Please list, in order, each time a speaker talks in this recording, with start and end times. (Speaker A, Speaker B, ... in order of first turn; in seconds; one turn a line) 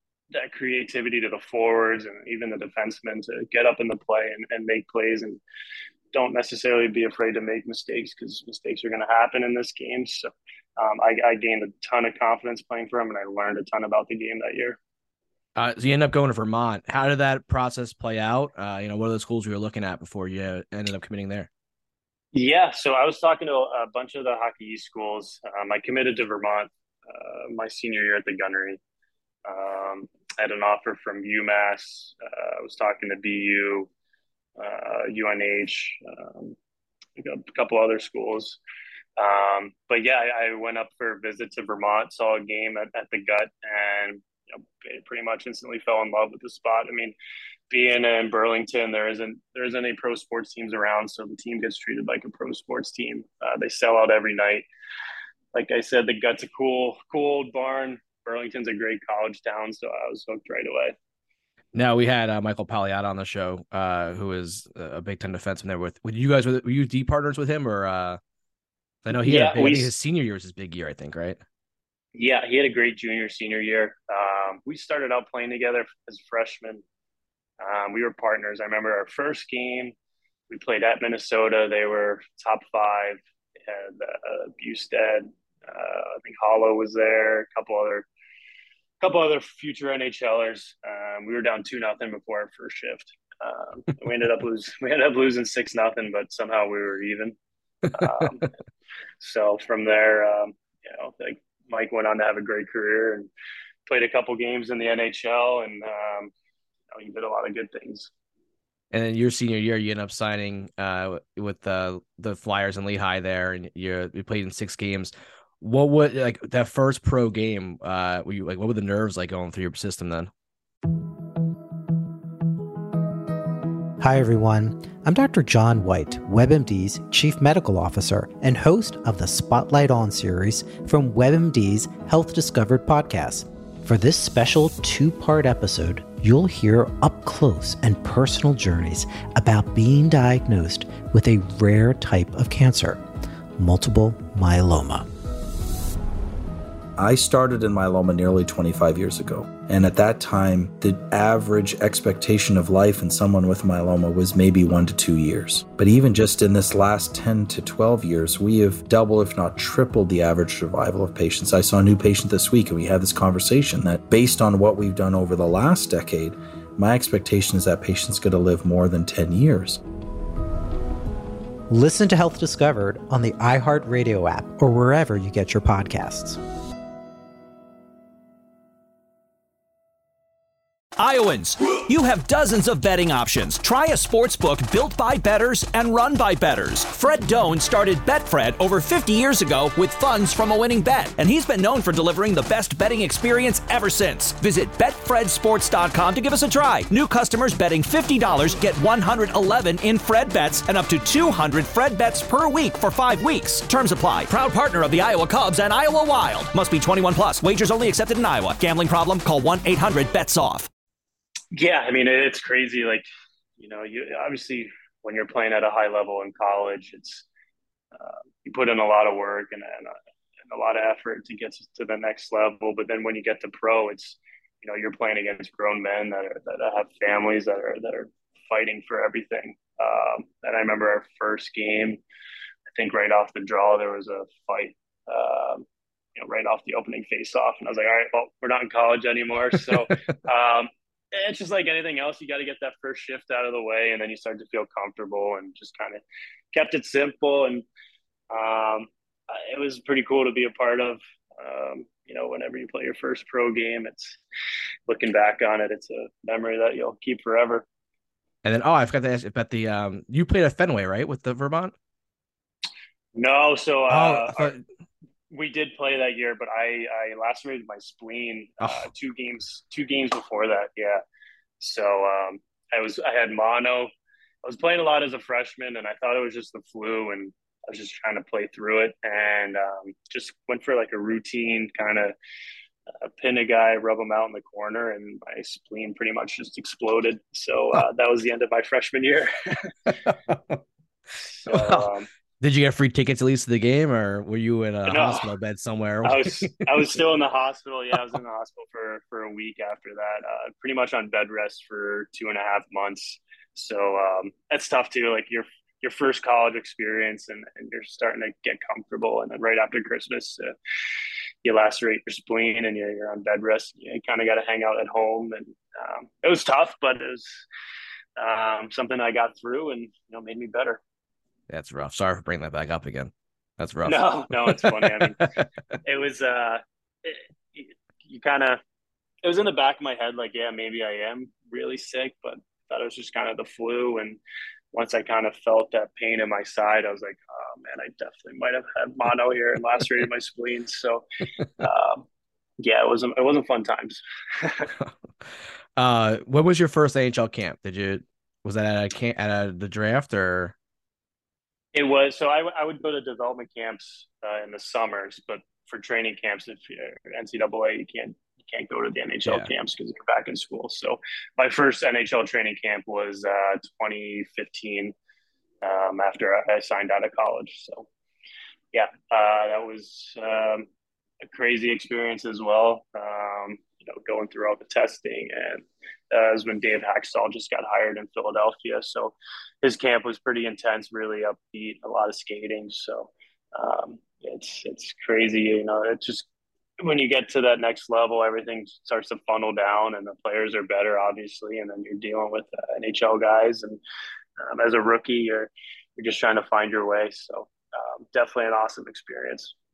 Speaker A: 0.3-5.4
Speaker A: 6.1-14.8
Speaker B: 15.6-21.5
Speaker A: 22.3-28.8
Speaker A: 29.4-33.9
Speaker A: 34.6-36.6
Speaker A: 37.2-38.6
Speaker A: 39.2-47.1
Speaker A: 47.7-54.7
Speaker A: 55.5-61.0
Speaker B: 61.7-68.2
Speaker B: 69.1-71.4
Speaker A: 69.2-69.9
Speaker A: 72.2-76.8
Speaker A: 77.6-79.9
Speaker A: 80.5-88.1
Speaker A: 89.0-97.3
Speaker A: 97.9-98.5
Speaker A: 99.2-103.3
Speaker A: 103.9-106.3
Speaker A: 106.9-108.1
Speaker B: 108.9-120.3
Speaker C: 124.0-143.0
Speaker C: 143.6-145.1
Speaker D: 147.0-169.8
Speaker C: 171.7-176.4
Speaker E: 181.0-210.7
Speaker A: 211.5-213.1
Speaker A: 213.6-217.3
Speaker A: 217.9-220.0
Speaker A: 220.5-232.0
Speaker A: 232.7-235.7
Speaker A: 236.2-246.0
Speaker A: 246.5-247.7
Speaker A: 248.3-254.2
Speaker A: 254.9-257.6
Speaker B: 258.4-261.7
Speaker A: 263.1-264.5
Speaker B: 263.9-264.6
Speaker A: 265.3-271.0
Speaker A: 271.6-273.9
Speaker A: 274.4-282.1
Speaker A: 283.0-289.9
Speaker B: 290.1-290.6
Speaker A: 291.4-292.1
Speaker B: 291.5-291.9
Speaker B: 292.4-296.6
Speaker A: 294.9-295.3
Speaker A: 296.0-310.5
Speaker A: 311.4-317.4
Speaker A: 318.2-320.8
Speaker B: 321.5-325.4
Speaker A: 323.9-325.3
Speaker A: 325.9-328.6
Speaker A: 329.2-334.2
Speaker A: 334.7-341.1
Speaker A: 341.6-342.0
Speaker A: 342.6-344.7
Speaker B: 345.8-350.5
Speaker A: 351.7-364.9
Speaker A: 365.6-367.9
Speaker A: 368.7-370.7
Speaker A: 371.2-386.3
Speaker A: 386.8-393.8
Speaker A: 394.4-399.6